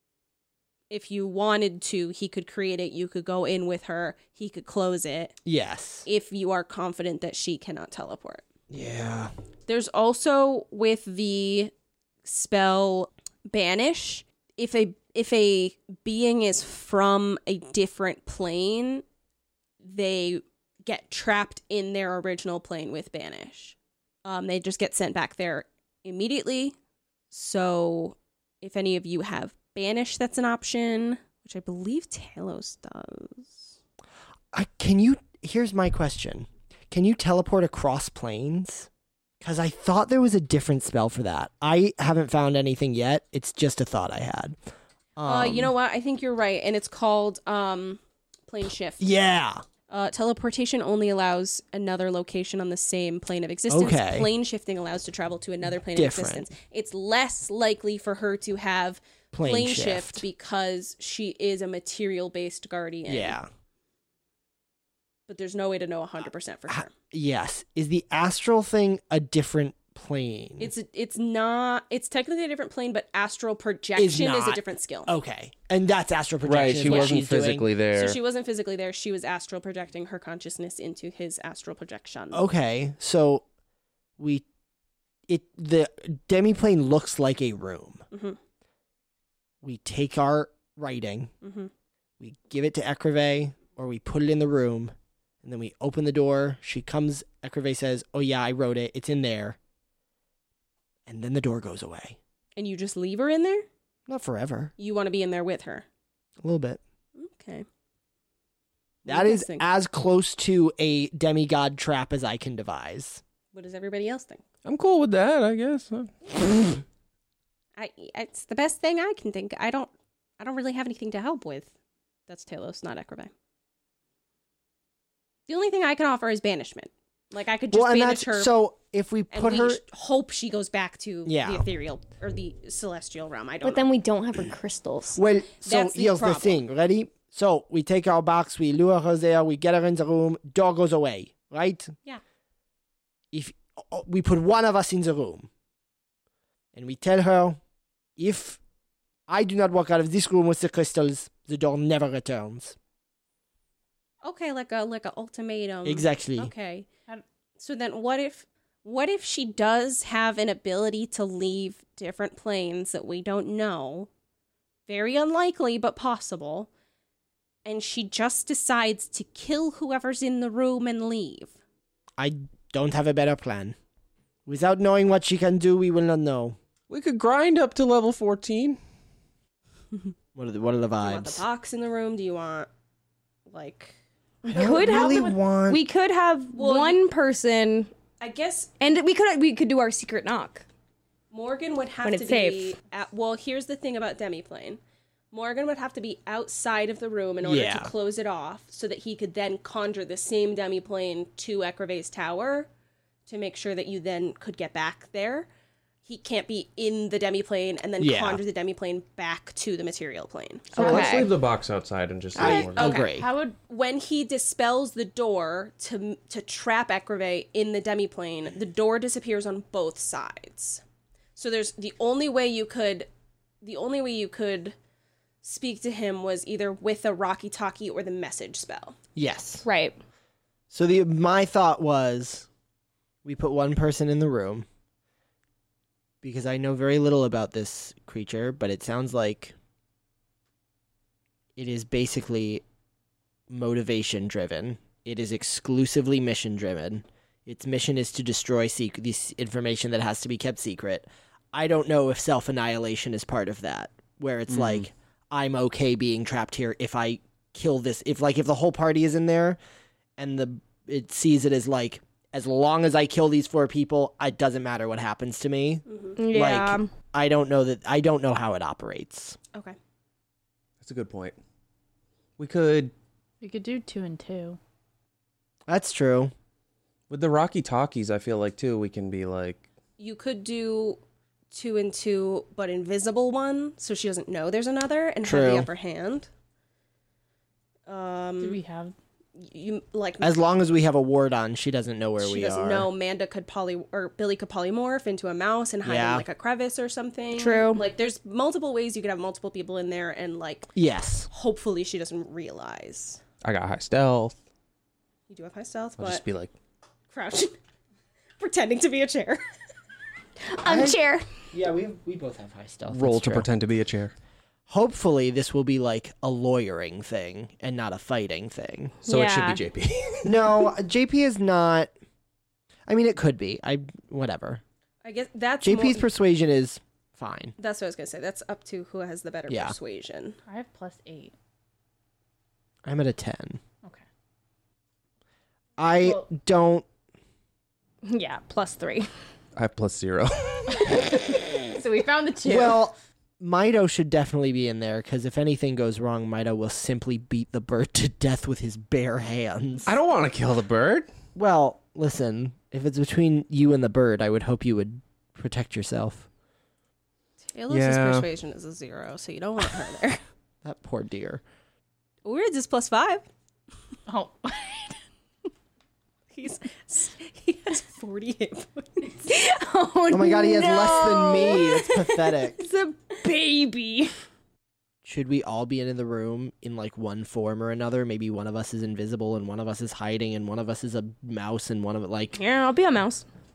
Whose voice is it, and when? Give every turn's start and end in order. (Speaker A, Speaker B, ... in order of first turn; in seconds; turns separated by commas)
Speaker A: 0.9-5.3, Speaker B: 5.5-6.1, Speaker A: 6.1-8.4, Speaker B: 8.7-9.3, Speaker A: 9.7-11.7, Speaker A: 12.2-19.0, Speaker A: 19.8-26.8, Speaker A: 27.3-33.8, Speaker B: 34.5-38.9, Speaker B: 39.4-44.6, Speaker B: 45.2-45.7, Speaker A: 45.2-49.1, Speaker B: 49.0-49.6, Speaker A: 49.9-63.4, Speaker B: 53.7-54.3, Speaker B: 56.0-56.5, Speaker B: 59.3-60.2, Speaker B: 63.1-63.5, Speaker A: 65.3-66.9, Speaker B: 66.7-70.7, Speaker A: 70.6-75.1, Speaker B: 74.0-77.7, Speaker C: 76.5-78.2, Speaker A: 76.9-77.2, Speaker A: 77.9-82.4, Speaker B: 82.3-83.4, Speaker B: 84.2-84.5, Speaker B: 85.3-88.0, Speaker A: 88.1-88.4, Speaker B: 89.6-91.3, Speaker A: 91.4-91.7, Speaker B: 92.2-99.6, Speaker B: 101.1-102.2, Speaker A: 102.6-103.7, Speaker B: 104.1-104.7, Speaker A: 104.8-105.9, Speaker B: 106.4-106.8, Speaker A: 107.2-107.7, Speaker A: 109.0-109.7, Speaker B: 109.0-113.2, Speaker A: 113.5-114.4, Speaker C: 114.7-116.8, Speaker A: 117.8-121.7, Speaker A: 122.3-123.3, Speaker A: 125.5-128.5, Speaker B: 127.7-129.8, Speaker A: 129.3-133.8, Speaker B: 131.2-131.7, Speaker D: 133.6-135.2, Speaker B: 135.2-141.9, Speaker A: 135.6-136.6, Speaker B: 143.3-145.5, Speaker B: 146.7-147.6, Speaker B: 148.2-148.6, Speaker B: 149.3-152.8, Speaker A: 154.2-156.9, Speaker B: 155.8-156.5, Speaker A: 157.6-164.1, Speaker A: 164.9-166.7, Speaker A: 167.7-171.5, Speaker B: 172.2-173.8, Speaker B: 174.5-176.6, Speaker C: 176.9-178.8, Speaker B: 180.3-181.4, Speaker A: 181.0-182.7, Speaker A: 183.5-184.0, Speaker D: 184.4-187.9, Speaker B: 184.4-185.8, Speaker A: 184.6-185.2, Speaker A: 186.5-187.0, Speaker A: 188.2-189.0, Speaker D: 188.8-190.7, Speaker A: 191.3-194.8, Speaker D: 192.0-192.7, Speaker A: 195.3-202.7, Speaker B: 197.4-197.9, Speaker A: 203.3-205.5, Speaker A: 206.1-210.8, Speaker B: 208.0-208.4, Speaker C: 210.7-212.9, Speaker B: 210.8-211.3, Speaker D: 210.8-211.3, Speaker B: 212.3-213.3, Speaker A: 212.4-220.8, Speaker E: 212.8-213.6, Speaker A: 221.4-223.1, Speaker A: 223.6-224.8, Speaker A: 225.4-229.0, Speaker B: 229.2-229.7, Speaker D: 229.6-230.0, Speaker B: 230.7-232.5, Speaker B: 233.2-234.7, Speaker B: 236.2-239.6, Speaker B: 241.6-242.6, Speaker B: 243.5-259.6, Speaker C: 254.5-254.8, Speaker B: 260.2-269.4, Speaker A: 265.9-266.2, Speaker D: 266.2-266.9, Speaker C: 270.8-271.4, Speaker C: 272.4-272.9, Speaker E: 273.4-274.6, Speaker B: 275.7-276.3, Speaker C: 277.1-279.6, Speaker A: 280.0-281.0, Speaker A: 281.5-286.3, Speaker B: 285.2-285.7, Speaker A: 287.9-288.6, Speaker E: 288.4-288.9, Speaker A: 289.4-290.4, Speaker B: 290.2-292.9, Speaker A: 292.2-300.7, Speaker B: 295.8-296.3, Speaker D: 297.4-297.8, Speaker B: 300.8-301.3, Speaker A: 301.3-303.2, Speaker C: 303.4-304.4, Speaker A: 305.3-306.2, Speaker C: 306.0-306.5, Speaker A: 307.1-307.5, Speaker A: 308.4-309.4, Speaker D: 310.5-311.2, Speaker B: 310.6-311.0, Speaker B: 311.5-313.5, Speaker C: 312.9-314.1, Speaker B: 314.7-318.9, Speaker D: 319.1-319.6, Speaker C: 319.1-320.3, Speaker B: 320.2-321.9, Speaker B: 322.9-324.6, Speaker A: 325.0-326.1, Speaker B: 325.6-327.6, Speaker A: 327.6-330.4, Speaker B: 329.5-329.8, Speaker E: 330.5-331.3, Speaker B: 332.9-333.6, Speaker B: 335.8-336.9, Speaker D: 338.1-339.1, Speaker C: 339.6-341.1, Speaker E: 341.8-342.8, Speaker B: 342.4-350.0, Speaker C: 349.9-351.1, Speaker B: 351.4-356.3, Speaker A: 357.5-360.2, Speaker C: 357.7-358.3, Speaker B: 360.6-361.4, Speaker A: 362.2-363.2, Speaker E: 364.1-365.0, Speaker A: 366.3-369.2, Speaker D: 369.2-374.1, Speaker B: 370.1-372.6, Speaker B: 375.0-382.4, Speaker D: 382.3-383.3